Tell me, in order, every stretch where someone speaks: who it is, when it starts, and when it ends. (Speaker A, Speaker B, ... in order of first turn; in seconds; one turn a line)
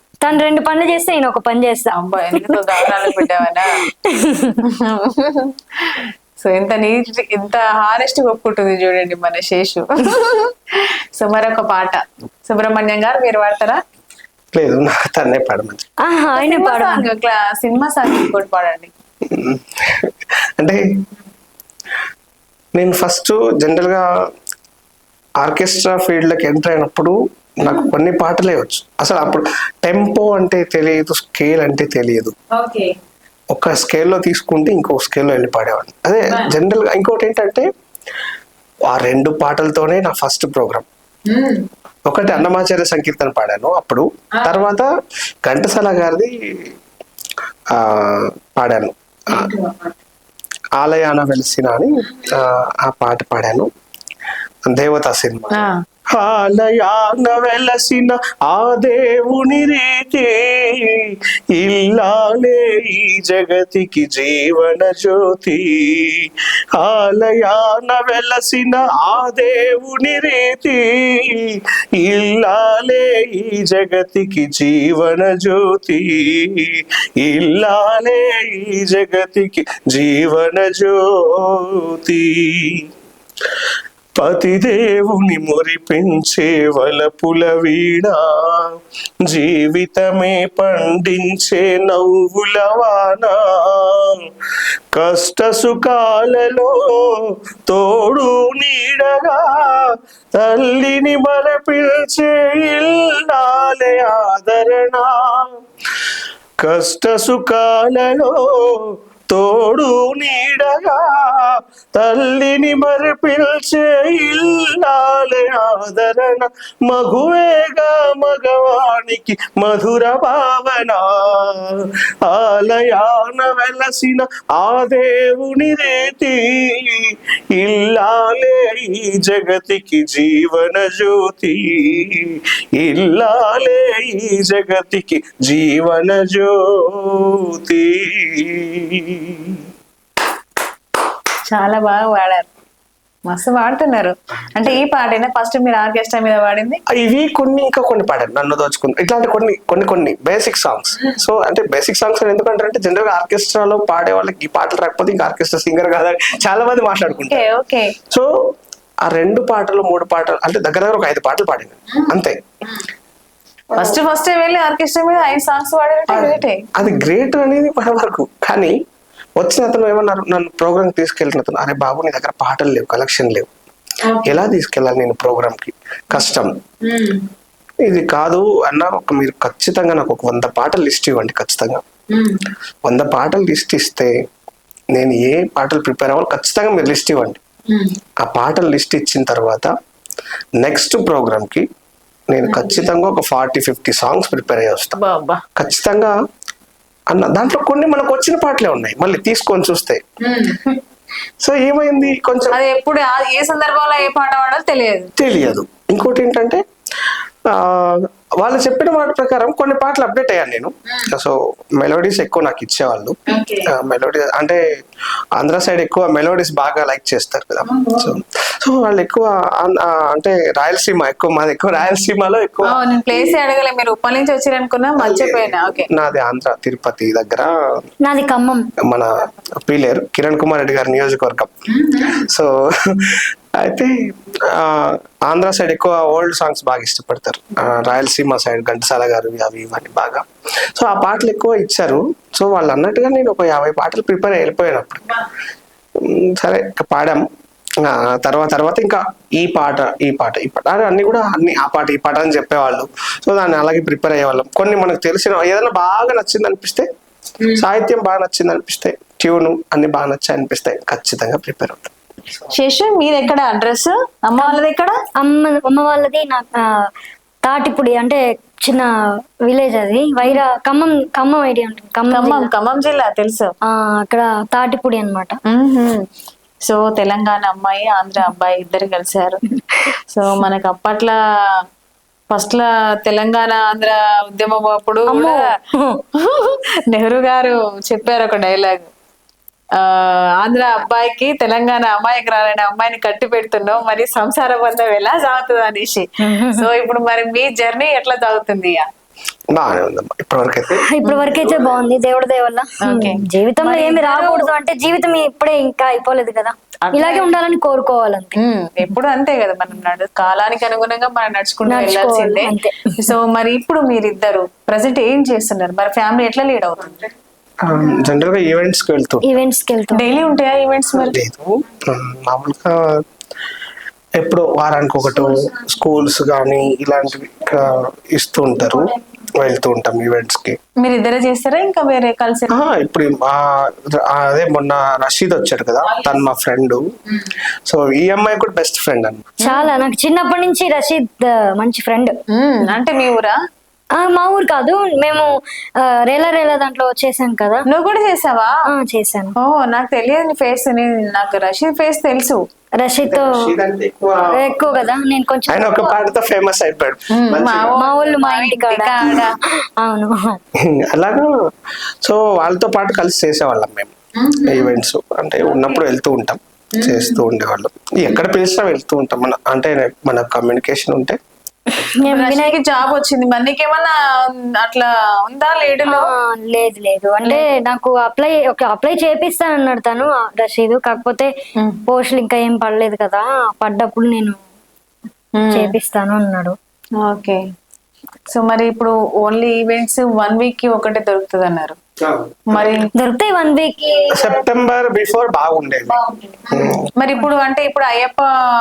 Speaker A: 0.2-3.2
Speaker B: 1.9-3.7
Speaker A: 4.1-4.6
Speaker B: 4.8-5.5
Speaker B: 6.0-10.5
Speaker B: 11.2-13.8
Speaker C: 14.5-15.8
Speaker A: 16.0-17.0
Speaker B: 16.4-18.9
Speaker C: 19.3-20.8
Speaker C: 22.7-24.0
Speaker C: 25.4-32.3
Speaker B: 32.5-32.9
Speaker C: 33.5-37.7
Speaker B: 36.3-36.5
Speaker C: 38.9-40.9
Speaker B: 41.3-41.6
Speaker C: 42.1-44.9
Speaker B: 44.4-44.6
Speaker C: 45.4-46.3
Speaker C: 47.7-49.5
Speaker B: 49.3-49.9
Speaker C: 50.8-53.7
Speaker C: 54.6-82.7
Speaker C: 84.2-88.6
Speaker C: 89.2-94.1
Speaker C: 94.9-96.7
Speaker C: 97.7-99.8
Speaker C: 100.4-105.5
Speaker C: 106.6-121.7
Speaker C: 122.2-132.2
Speaker C: 132.8-139.6
Speaker B: 141.5-142.4
Speaker B: 143.3-146.8
Speaker C: 146.9-157.4
Speaker B: 157.3-157.9
Speaker C: 159.1-162.4
Speaker B: 163.7-166.8
Speaker C: 166.1-168.7
Speaker C: 169.4-173.5
Speaker B: 174.1-174.4
Speaker C: 174.2-176.5
Speaker B: 176.8-177.2
Speaker C: 177.8-181.8
Speaker B: 182.1-182.4
Speaker C: 182.8-184.1
Speaker C: 184.9-187.4
Speaker C: 188.2-189.7
Speaker C: 190.6-191.7
Speaker C: 192.3-195.0
Speaker B: 192.5-192.8
Speaker B: 194.9-195.4
Speaker C: 195.6-196.1
Speaker C: 197.1-200.0
Speaker B: 200.2-200.7
Speaker C: 201.4-202.6
Speaker B: 202.5-205.1
Speaker C: 205.2-206.6
Speaker C: 207.5-214.6
Speaker B: 213.3-213.7
Speaker C: 215.4-223.4
Speaker B: 217.7-218.1
Speaker B: 222.7-225.9
Speaker C: 225.0-227.5
Speaker A: 228.0-228.7
Speaker C: 229.6-231.5
Speaker B: 231.7-232.2
Speaker C: 232.1-233.9
Speaker C: 234.5-245.1
Speaker C: 246.0-247.2
Speaker C: 247.8-256.9
Speaker C: 257.6-261.9
Speaker B: 262.5-264.9
Speaker A: 265.2-266.8
Speaker A: 267.4-268.9
Speaker A: 269.4-272.5
Speaker B: 272.1-273.5
Speaker A: 273.6-275.4
Speaker B: 275.5-276.0
Speaker B: 276.7-279.4
Speaker B: 280.1-281.2
Speaker B: 282.3-285.4
Speaker A: 285.1-286.0
Speaker B: 286.2-288.9
Speaker B: 289.8-298.9
Speaker A: 296.2-296.7
Speaker C: 299.5-301.9
Speaker A: 300.8-308.4
Speaker B: 301.0-301.3
Speaker B: 302.9-304.5
Speaker B: 306.9-307.4
Speaker B: 308.4-317.1
Speaker A: 311.7-312.9
Speaker C: 317.6-319.3
Speaker A: 319.2-320.1
Speaker B: 319.9-321.1
Speaker C: 320.9-322.8
Speaker C: 324.2-330.6
Speaker B: 330.8-332.7
Speaker C: 332.5-336.8
Speaker B: 335.8-336.2
Speaker C: 337.6-339.3
Speaker A: 339.4-342.1
Speaker B: 339.4-339.7
Speaker B: 342.3-343.3
Speaker A: 344.0-345.3
Speaker A: 345.8-347.6
Speaker B: 347.7-348.5
Speaker A: 348.7-349.4
Speaker B: 349.4-352.4
Speaker A: 352.8-353.4
Speaker C: 353.0-354.9
Speaker A: 354.3-356.0
Speaker C: 355.5-357.8
Speaker B: 357.1-359.3
Speaker A: 357.8-359.2
Speaker A: 359.8-360.4
Speaker C: 360.7-361.3
Speaker C: 362.0-363.9
Speaker B: 364.2-364.7
Speaker C: 364.4-371.2
Speaker B: 365.4-365.8
Speaker B: 366.8-367.2
Speaker A: 371.8-372.6
Speaker B: 372.0-376.1
Speaker A: 375.9-381.3
Speaker A: 381.9-384.4
Speaker B: 385.4-385.7
Speaker A: 385.5-386.6
Speaker B: 387.1-387.4
Speaker B: 388.3-391.8
Speaker C: 392.0-392.8
Speaker B: 392.5-392.9
Speaker A: 392.9-394.4
Speaker C: 394.1-396.9
Speaker B: 396.5-398.3